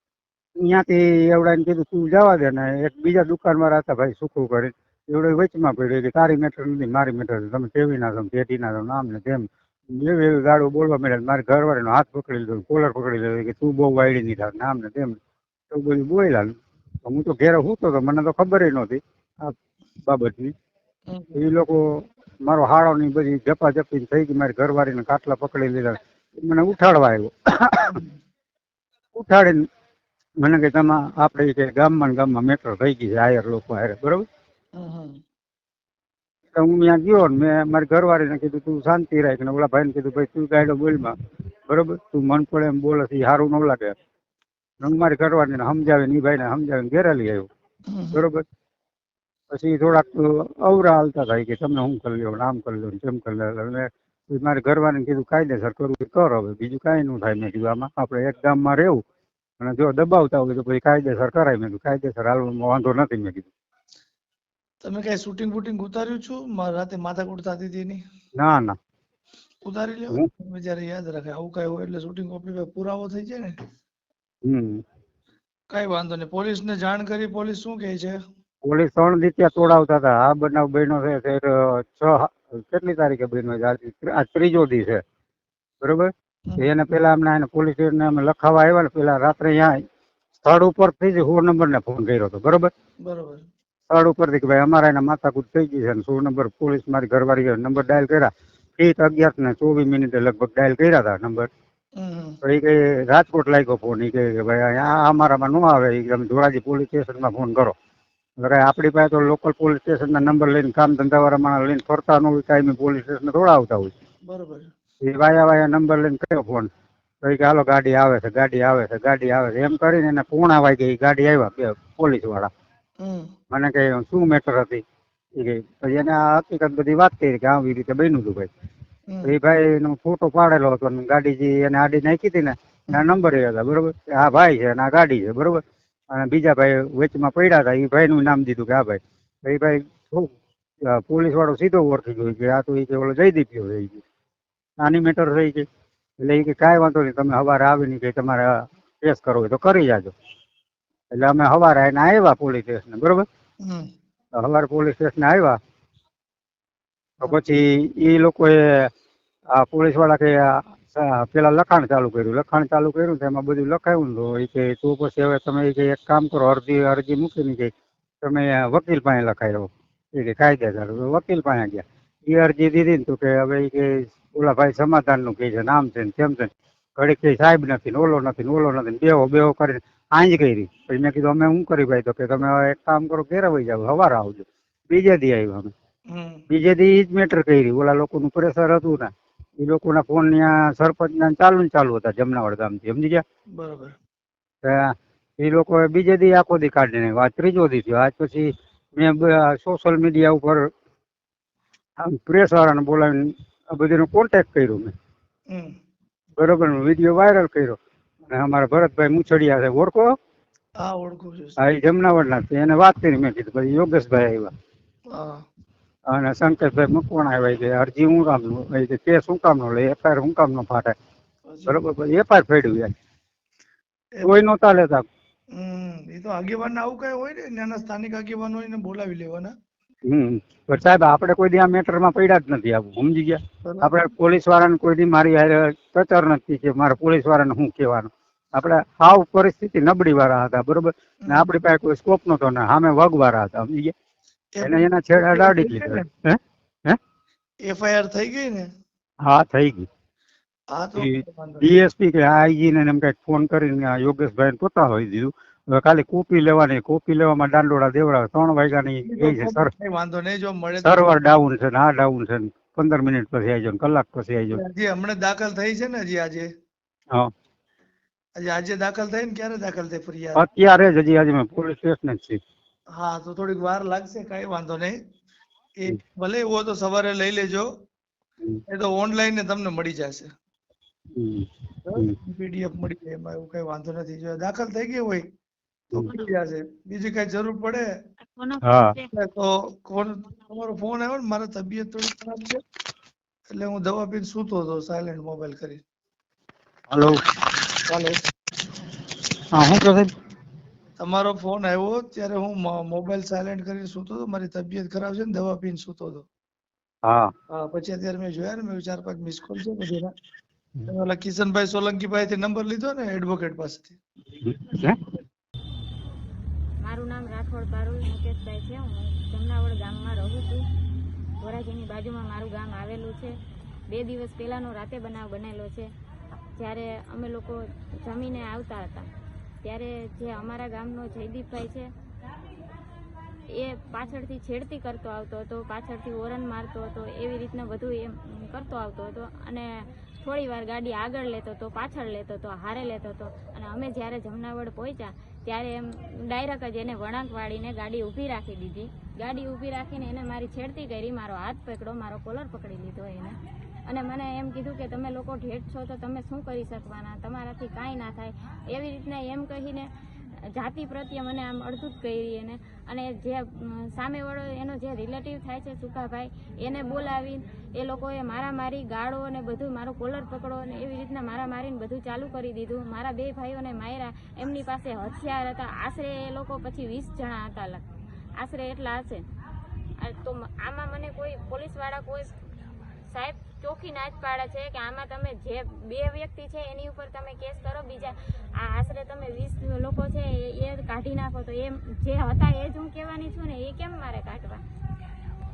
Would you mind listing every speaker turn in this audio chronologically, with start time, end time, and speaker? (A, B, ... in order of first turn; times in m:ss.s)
0:00.6-0:15.2 A
0:15.7-0:16.5 A
0:17.0-0:19.5 A
0:20.1-0:20.5 A
0:21.1-0:21.4 B
0:21.4-0:28.0 A
0:29.2-0:29.6 A
0:30.4-0:34.2 A
0:34.8-0:35.2 B
0:36.6-0:41.1 A
0:41.7-0:43.9 A
0:44.8-0:47.5 A
0:47.9-0:48.2 B
0:48.1-0:48.4 A
0:49.5-0:59.0 A
0:59.6-1:03.5 A
1:04.8-1:08.0 B
1:08.4-1:08.8 A
1:09.6-1:13.5 B
1:14.5-1:14.8 A
1:15.7-1:18.2 B
1:18.6-1:25.0 A
1:25.8-1:29.7 A
1:30.4-1:32.7 A
1:33.0-1:33.4 B
1:33.9-1:41.5 A
1:42.0-1:42.4 B
1:42.4-1:47.8 A
1:48.4-1:53.9 A
1:54.3-1:54.7 B
1:55.0-1:56.7 A
1:57.2-2:02.5 A
2:03.0-2:03.3 B
2:03.5-2:04.8 A
2:05.4-2:08.5 A
2:09.1-2:09.4 B
2:09.2-2:15.6 A
2:16.1-2:20.3 A
2:20.8-2:24.0 A
2:24.8-2:25.7 A
2:26.2-2:30.1 A
2:31.1-2:33.3 A
2:34.4-2:35.6 A
2:37.2-2:38.9 A
2:39.6-2:47.7 A
2:48.2-3:05.7 A
3:06.1-3:06.4 B
3:06.5-3:13.2 A
3:13.6-3:14.0 B
3:14.6-3:20.6 A
3:22.0-3:24.9 A
3:26.4-3:27.8 A
3:28.3-3:30.0 A
3:30.8-3:31.6 B
3:31.6-3:34.5 A
3:36.1-3:40.9 A
3:41.5-3:41.8 B
3:41.7-3:42.9 A
3:44.2-3:45.0 A
3:45.6-3:49.5 B
3:50.1-4:03.9 A
3:53.6-3:54.0 B
4:01.2-4:01.6 B
4:04.6-4:06.0 B
4:04.6-4:07.0 A
4:07.7-4:08.6 B
4:09.3-4:09.9 A
4:10.7-4:11.7 B
4:11.0-4:19.7 A
4:19.1-4:21.0 B
4:20.8-4:24.6 A
4:24.5-4:26.5 B
4:28.4-4:30.4 B
4:30.4-4:32.4 A
4:33.0-4:35.0 B
4:35.8-4:37.7 B
4:38.7-4:40.3 B
4:41.2-4:42.2 A
4:41.9-4:45.2 B
4:46.0-4:47.9 B
4:48.3-4:49.1 C
4:48.6-4:49.0 A
4:49.1-4:52.6 B
4:53.5-4:55.8 B
4:56.9-4:57.2 A
4:57.9-4:58.2 B
4:59.5-5:00.1 A
5:01.0-5:06.3 B
5:07.5-5:10.1 B
5:10.9-5:14.0 B
5:14.4-5:15.0 A
5:16.8-5:20.6 C
5:21.4-5:23.4 C
5:23.9-5:25.9 C
5:26.6-5:29.1 C
5:29.6-5:31.9 C
5:33.5-5:59.9 C
6:00.5-6:17.8 C
6:18.4-6:19.2 C
6:20.0-6:22.4 C
6:23.1-6:34.6 C